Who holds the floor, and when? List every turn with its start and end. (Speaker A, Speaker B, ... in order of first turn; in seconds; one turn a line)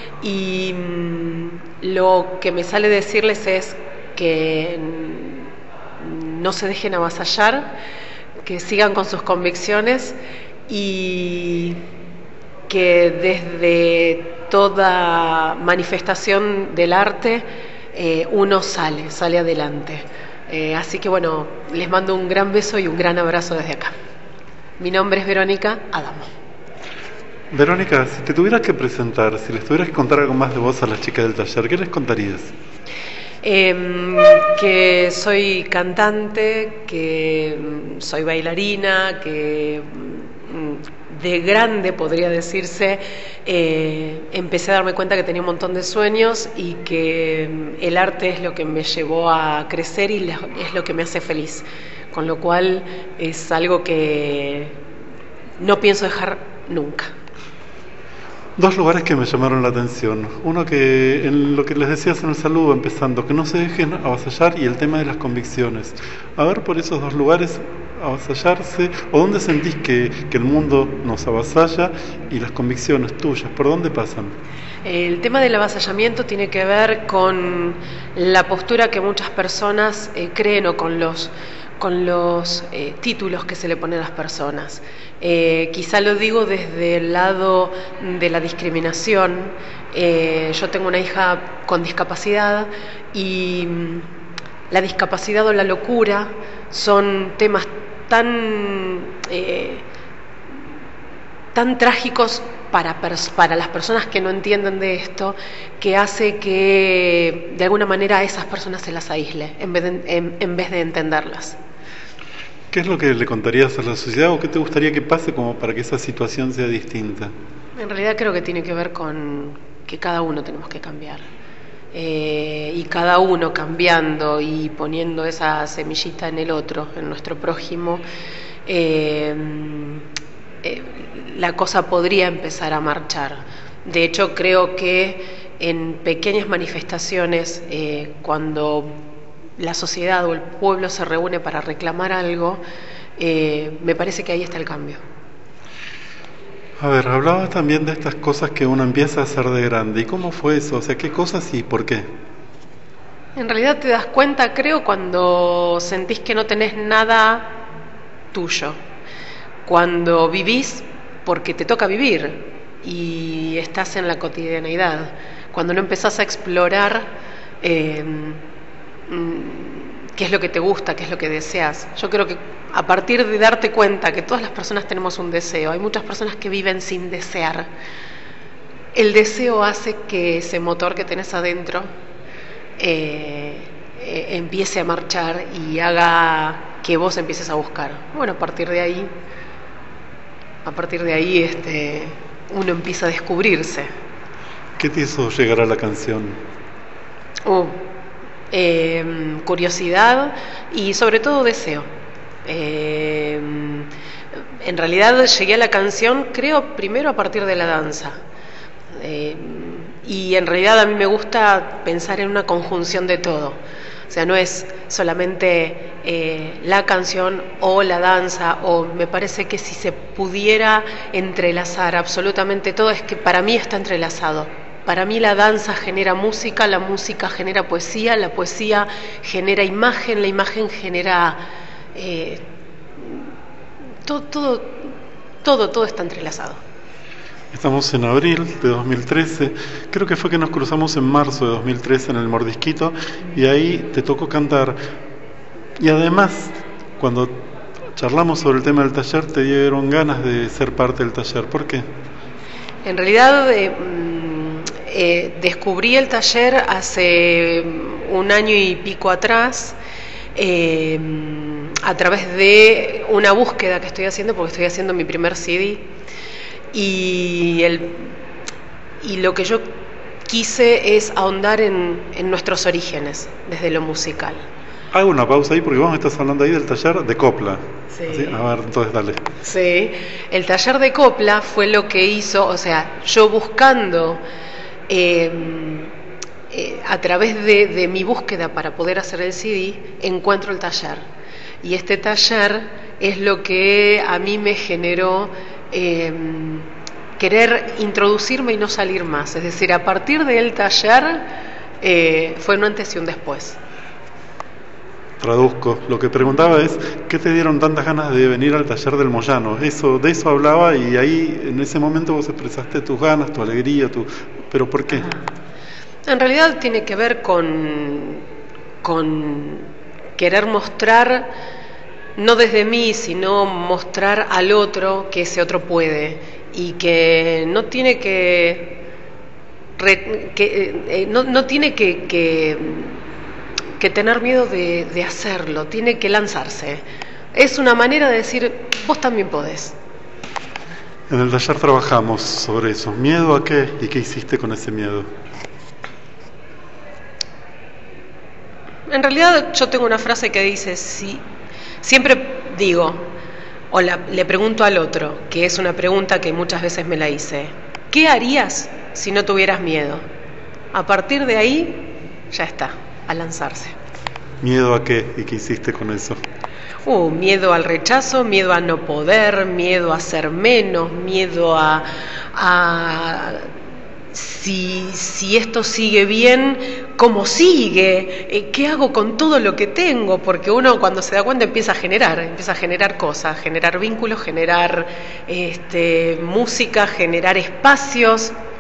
Speaker A: 0.2-7.7
Speaker A: 8.4-10.2
Speaker A: 10.7-11.8
Speaker A: 12.7-23.9
Speaker A: 24.8-26.3
Speaker B: 27.5-32.5
Speaker A: 33.4-54.8
Speaker A: 55.6-57.1
Speaker B: 58.6-74.4
Speaker A: 74.8-94.1
Speaker A: 94.7-99.8
Speaker A: 101.5-111.6
Speaker B: 112.7-117.3
Speaker A: 117.8-121.2
Speaker A: 121.9-128.0
Speaker A: 128.7-130.1
Speaker A: 130.6-139.0
Speaker A: 139.6-142.6
Speaker A: 143.2-145.0
Speaker B: 146.8-152.1
Speaker A: 153.4-157.6
Speaker A: 158.3-158.8
Speaker A: 159.7-167.1
Speaker A: 167.6-168.4
Speaker A: 169.1-177.7
Speaker A: 178.9-181.9
Speaker A: 182.8-189.1
Speaker A: 190.7-193.9
Speaker B: 194.8-196.4
Speaker A: 197.4-197.9
Speaker A: 198.5-201.9
Speaker A: 202.5-203.9
Speaker A: 204.6-208.2
Speaker A: 209.0-213.6
Speaker A: 214.1-231.4
Speaker A: 231.9-232.5
Speaker A: 233.0-233.3
Speaker A: 234.1-236.6
Speaker B: 237.5-244.8
Speaker B: 245.8-251.8
Speaker A: 252.8-259.8
Speaker A: 260.4-265.9
Speaker A: 266.7-268.1
Speaker A: 269.0-274.4
Speaker B: 274.9-279.3
Speaker A: 277.9-278.5
Speaker A: 279.4-284.2
Speaker A: 284.9-285.9
Speaker A: 286.5-291.1
Speaker A: 291.6-303.6
Speaker B: 305.2-315.1
Speaker A: 314.9-315.2
Speaker A: 316.1-318.2
Speaker A: 318.8-321.3
Speaker A: 322.2-328.8
Speaker A: 329.8-333.0
Speaker A: 333.8-336.8
Speaker A: 337.3-339.8
Speaker B: 341.1-345.1
Speaker A: 348.9-351.2
Speaker A: 351.8-353.1
Speaker A: 353.7-360.0
Speaker A: 360.7-363.8
Speaker B: 364.4-366.2
Speaker A: 366.9-373.5
Speaker A: 374.1-388.3